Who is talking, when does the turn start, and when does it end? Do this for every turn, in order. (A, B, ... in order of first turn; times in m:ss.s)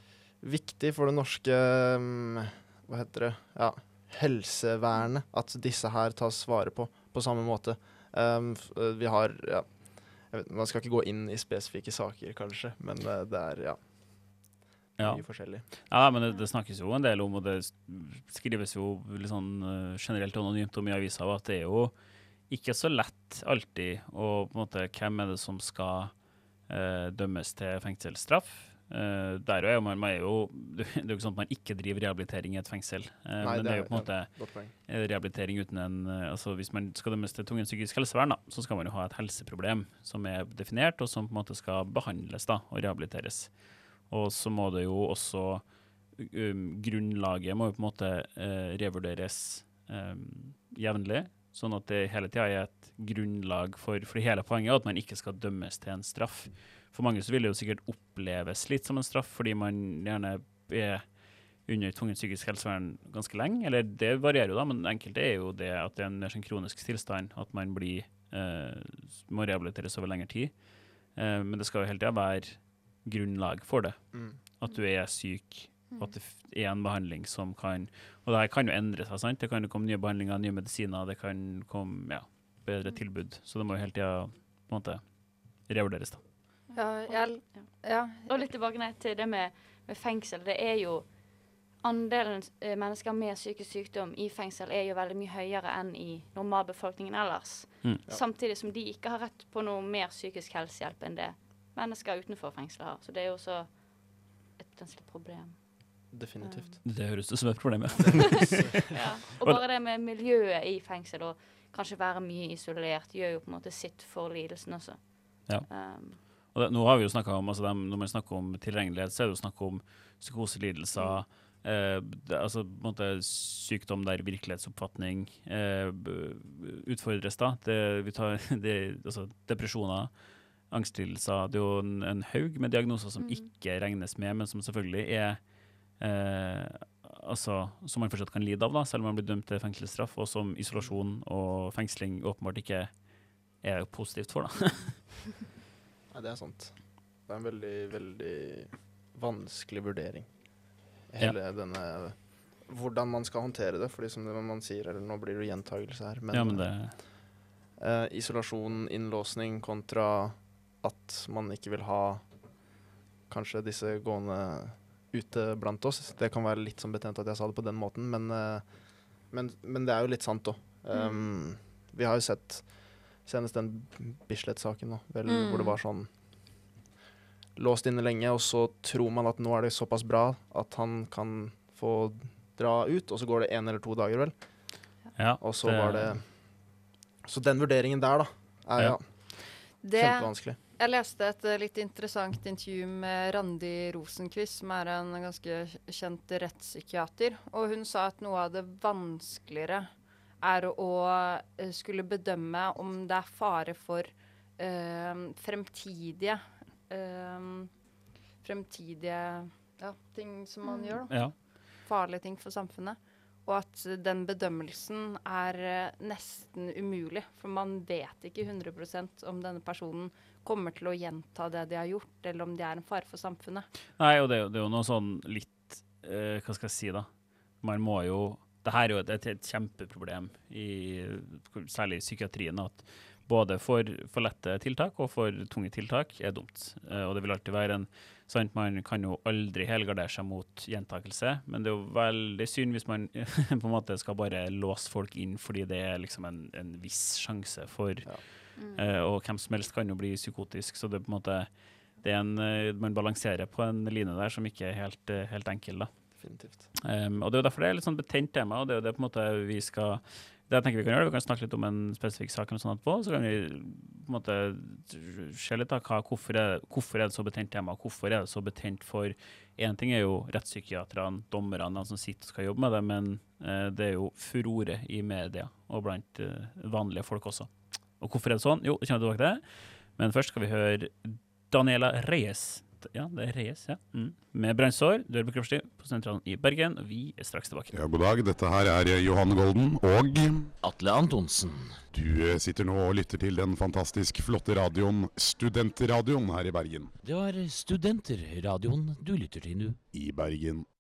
0:00.4-0:15.7 A
0:15.0-1:26.2 B
0:33.4-0:34.7 A
1:14.1-1:14.4 A
1:26.7-1:46.8 C
1:26.8-1:28.4 D
1:46.1-1:47.0 A
1:46.8-1:49.6 B
1:47.9-1:56.2 C
1:48.0-1:49.2 A
1:55.5-2:25.0 B
2:01.0-2:01.2 C
2:13.2-2:13.5 C
2:26.1-2:42.7 A
2:36.3-2:37.0 B
2:43.3-2:56.6 A
2:50.9-2:51.2 C
2:55.2-2:55.8 D
2:57.6-3:10.6 A
3:05.2-3:06.2 B
3:09.8-3:43.7 D
3:30.6-3:31.0 C
3:31.1-3:31.3 B
3:44.0-4:16.3 B
4:08.6-4:08.9 C
4:16.2-4:16.7 A
4:16.8-4:47.7 B
4:47.7-4:50.5 E
4:50.6-4:51.8 F
4:51.9-4:57.0 E
4:57.0-4:59.8 F
4:59.9-5:00.7 E